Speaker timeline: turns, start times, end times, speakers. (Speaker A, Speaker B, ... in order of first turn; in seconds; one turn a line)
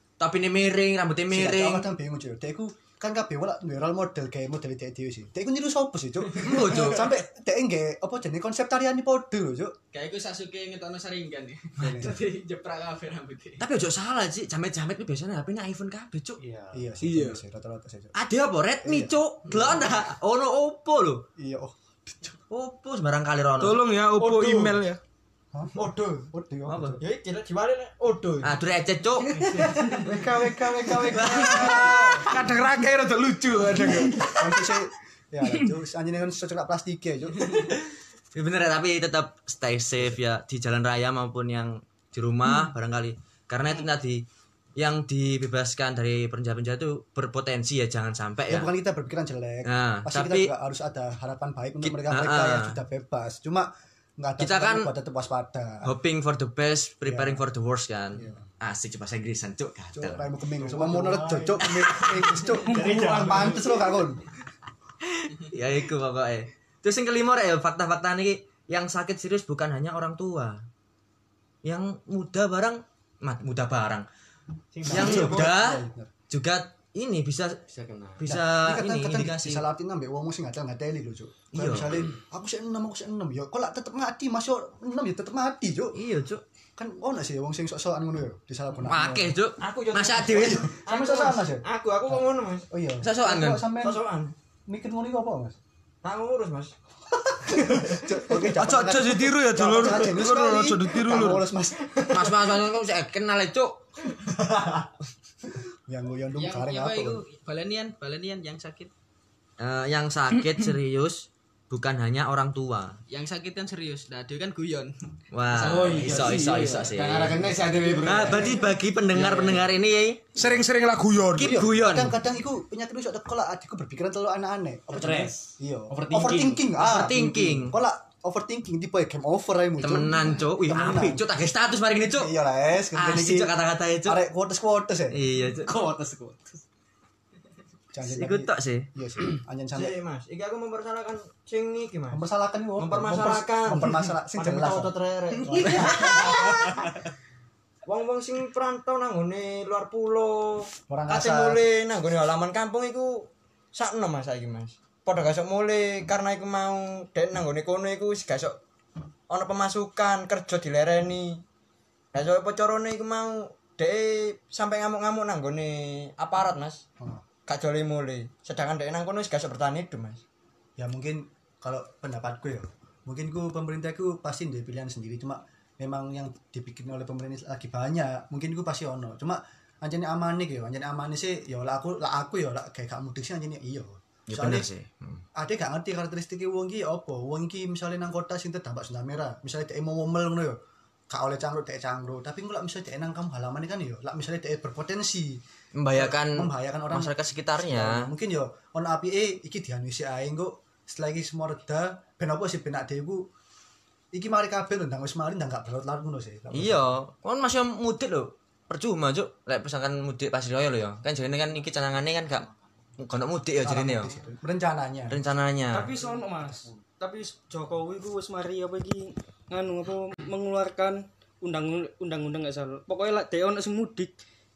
Speaker A: 0.2-1.9
Speaker B: 1.3-9.8
Speaker A: 6.3-7.2
Speaker C: 9.9-13.7
Speaker B: 11.8-12.2
Speaker A: 13.6-16.4
Speaker D: 16.4-16.7
Speaker B: 16.7-18.1
Speaker E: 17.0-17.4
Speaker A: 18.1-21.3
Speaker B: 18.8-19.8
Speaker B: 21.4-22.4
Speaker A: 22.5-23.8
Speaker E: 23.6-25.0
Speaker F: 24.2-24.7
Speaker B: 25.5-27.0
Speaker F: 25.8-26.3
Speaker A: 26.7-27.0
Speaker F: 27.0-28.6
Speaker A: 28.4-29.5
Speaker F: 29.4-32.2
Speaker B: 29.9-32.3
Speaker A: 31.1-32.1
Speaker E: 31.4-34.3
Speaker B: 34.2-37.7
Speaker A: 38.4-44.2
Speaker A: 44.8-48.7
Speaker B: 48.5-55.9
Speaker A: 49.6-50.5
Speaker A: 51.8-52.8
Speaker A: 54.4-54.9
Speaker A: 55.8-60.3
Speaker B: 57.0-57.4
Speaker B: 58.1-58.4
Speaker B: 59.9-64.2
Speaker A: 61.8-62.4
Speaker G: 62.7-63.3
Speaker A: 65.2-70.6
Speaker A: 71.6-74.1
Speaker B: 74.8-76.1
Speaker D: 74.9-75.3
Speaker A: 74.9-77.6
Speaker F: 74.9-75.3
Speaker D: 77.7-78.3
Speaker A: 78.2-79.7
Speaker B: 78.3-86.0
Speaker A: 81.5-82.1
Speaker A: 85.9-86.4
Speaker B: 86.8-89.4
Speaker A: 88.8-90.7
Speaker F: 89.6-92.7
Speaker B: 90.3-94.0
Speaker A: 93.0-93.7
Speaker F: 93.8-94.3
Speaker B: 94.7-95.6
Speaker F: 96.0-96.8
Speaker B: 97.3-101.8
Speaker E: 98.5-101.4
Speaker F: 101.9-102.3
Speaker A: 102.1-103.8
Speaker F: 104.2-104.8
Speaker B: 105.9-107.2
Speaker C: 106.4-108.9
Speaker A: 109.6-113.0
Speaker C: 113.1-114.9
Speaker A: 115.3-120.2
Speaker C: 115.5-116.2
Speaker D: 115.6-119.7
Speaker E: 120.3-121.6
Speaker A: 121.4-122.2
Speaker B: 121.4-131.3
Speaker D: 124.9-126.7
Speaker A: 126.8-127.8
Speaker A: 129.8-132.3
Speaker B: 132.1-133.5
Speaker A: 132.9-134.2
Speaker B: 134.0-135.2
Speaker A: 135.1-135.7
Speaker D: 135.6-136.6
Speaker B: 137.9-140.0
Speaker A: 138.0-138.9
Speaker F: 139.7-142.2
Speaker B: 142.1-146.2
Speaker F: 142.8-146.9
Speaker F: 147.8-158.6
Speaker B: 150.9-151.6
Speaker F: 159.3-161.4
Speaker F: 162.1-166.8
Speaker F: 167.5-170.2
Speaker B: 170.8-184.7
Speaker A: 184.3-185.2
Speaker B: 185.4-190.6
Speaker B: 191.1-195.4
Speaker A: 195.8-198.1
Speaker B: 195.9-203.3
Speaker B: 204.1-207.0
Speaker A: 206.5-212.5
Speaker A: 213.0-214.1
Speaker B: 213.6-215.2
Speaker A: 215.1-215.9
Speaker G: 215.7-224.1